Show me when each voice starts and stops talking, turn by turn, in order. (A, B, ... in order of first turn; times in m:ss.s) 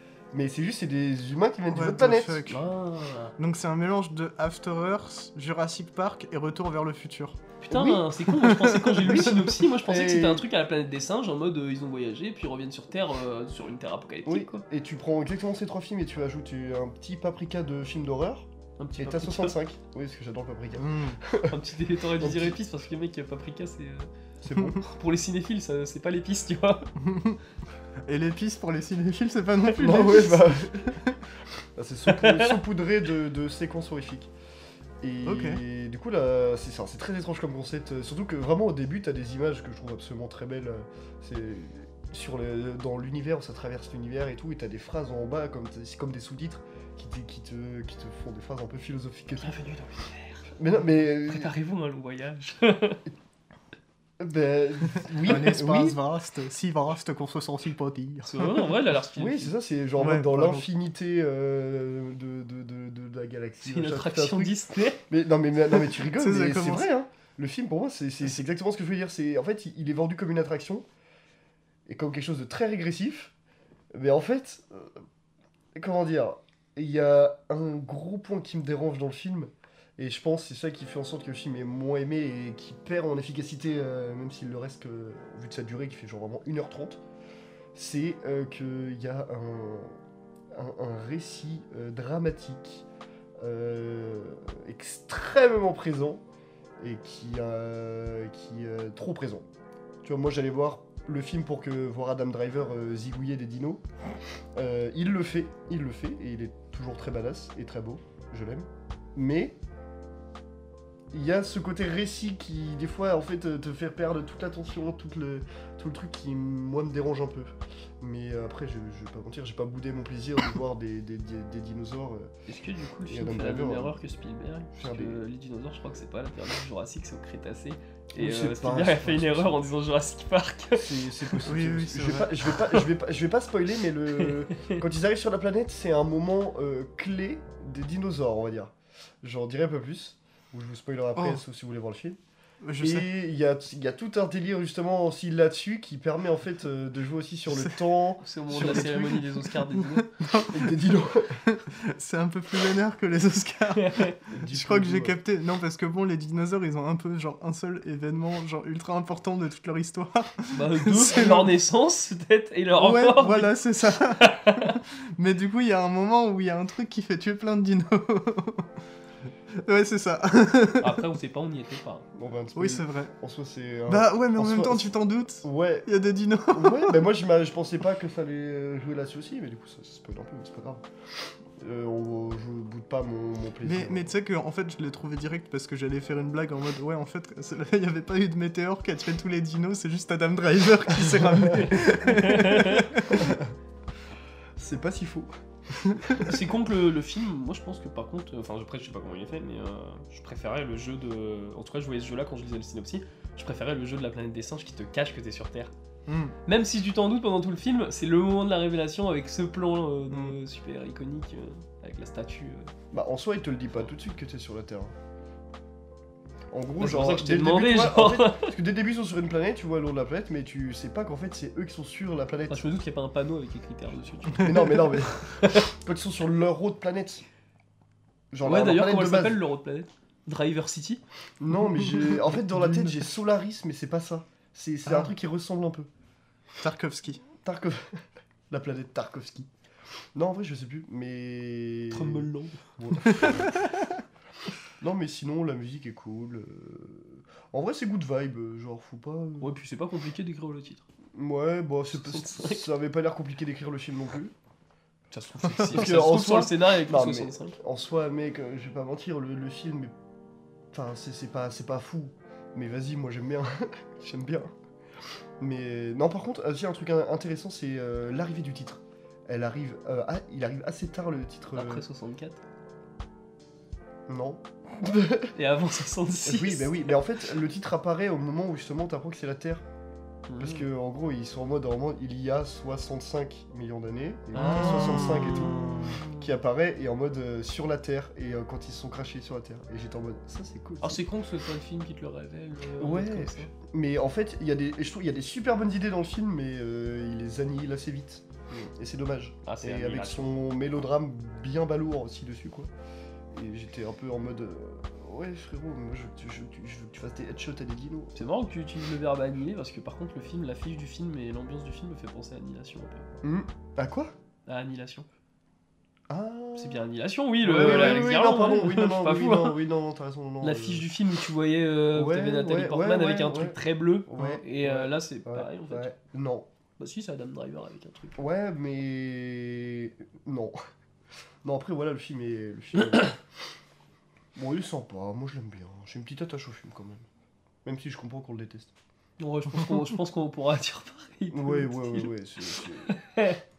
0:00.3-0:02.6 A
0:01.7-0:02.7 B
0:02.5-0:03.4 C
0:03.4-0:07.4 B
0:07.6-0:14.6 C
0:07.7-0:08.1 A
0:08.3-0:09.3 B
0:09.0-0:10.5 A
0:14.3-0:21.6 A
0:18.8-0:19.6 C
0:20.8-0:21.2 B
0:21.5-0:24.1 C
0:22.2-0:22.6 A
0:24.4-0:24.8 A
0:24.7-0:26.9 C
0:27.0-0:27.4 B
0:28.0-0:31.2 B
0:29.7-0:31.0 A
0:31.8-0:34.3 A
0:32.1-0:32.6 C
0:35.0-0:49.6 A
0:35.2-0:35.6 B
0:49.4-0:50.5 C
0:50.6-0:51.5 A
0:51.2-0:53.0 C
0:54.2-0:56.0 A
0:55.1-0:58.8 B
0:58.2-0:59.5 C
0:59.2-1:04.6 A
1:00.0-1:00.7 B
1:03.6-1:05.0 C
1:05.1-1:10.9 A
1:06.0-1:06.9 B
1:11.9-1:13.3 A
1:13.9-1:15.0 A
1:15.8-1:27.0 A
1:27.7-1:30.0 A
1:30.5-1:32.9 A
1:33.4-1:36.2 A
1:36.8-1:39.5 A
1:40.0-1:43.8 A
1:44.6-1:49.6 A
1:51.1-2:02.3 A
2:02.5-2:11.4 C
2:03.1-2:04.0 A
2:04.8-2:05.2 A
2:08.2-2:09.6 A
2:10.8-2:22.2 A
2:11.4-2:12.8 B
2:14.2-2:14.8 C
2:21.2-2:21.4 B
2:22.6-2:23.1 B
2:22.8-2:29.2 A
2:27.5-2:27.8 B
2:28.2-2:30.1 C
2:28.6-2:30.8 B
2:30.5-2:31.4 A
2:31.4-2:41.5 B
2:33.8-2:34.2 C
2:34.3-2:35.2 A
2:40.5-2:43.5 C
2:42.8-2:48.7 B
2:44.2-2:44.8 C
2:49.5-2:51.1 B
2:50.8-2:52.1 C
2:52.2-2:55.9 A
2:52.5-2:53.1 B
2:53.9-2:57.1 B
2:56.5-3:00.8 A
3:01.5-3:04.1 A
3:03.6-3:13.4 B
3:11.1-3:12.4 A
3:11.8-3:13.1 C
3:13.1-3:13.5 A
3:14.6-3:15.3 A
3:15.9-3:16.2 B
3:16.2-3:25.7 C
3:26.1-3:26.4 B
3:26.5-3:32.7 C
3:30.1-3:30.4 B
3:32.9-3:34.9 A
3:36.5-3:42.7 A
3:36.8-3:38.5 C
3:42.5-3:44.8 C
3:44.3-3:47.2 A
3:45.4-3:45.6 C
3:48.3-3:49.4 A
3:48.4-3:51.0 C
3:51.4-3:55.9 A
3:51.9-3:53.0 B
3:54.9-3:55.1 B
3:56.6-3:57.2 B
3:57.4-3:59.5 A
4:00.2-4:03.6 A
4:01.9-4:03.4 C
4:03.1-4:03.7 B
4:04.8-4:09.5 A
4:09.4-4:10.8 C
4:11.1-4:14.3 A
4:11.9-4:12.7 C
4:15.1-4:17.6 C
4:15.6-4:19.9 A
4:20.7-4:24.5 A
4:25.4-4:31.8 A
4:31.5-4:32.4 C
4:34.1-4:35.3 A
4:35.4-4:37.0 C
4:36.2-4:39.6 A
4:40.3-4:40.7 C
4:40.4-4:51.0 A
4:44.4-4:46.3 C
4:44.4-4:46.0 B
4:50.8-4:53.5 C
4:52.8-5:02.7 A
4:59.4-5:00.4 C
5:03.3-5:08.2 A
5:08.2-5:13.1 C
5:13.2-5:14.1 A
5:14.5-5:15.1 C
5:16.1-5:16.9 A
5:16.6-5:19.6 C
5:17.4-5:20.9 A
5:20.4-5:25.9 C
5:21.9-5:26.5 A
5:26.8-5:28.2 C
5:28.2-5:30.6 A
5:31.4-5:33.2 A
5:34.4-5:37.1 A
5:37.6-5:38.7 A
5:39.2-5:43.4 C
5:41.3-5:43.0 A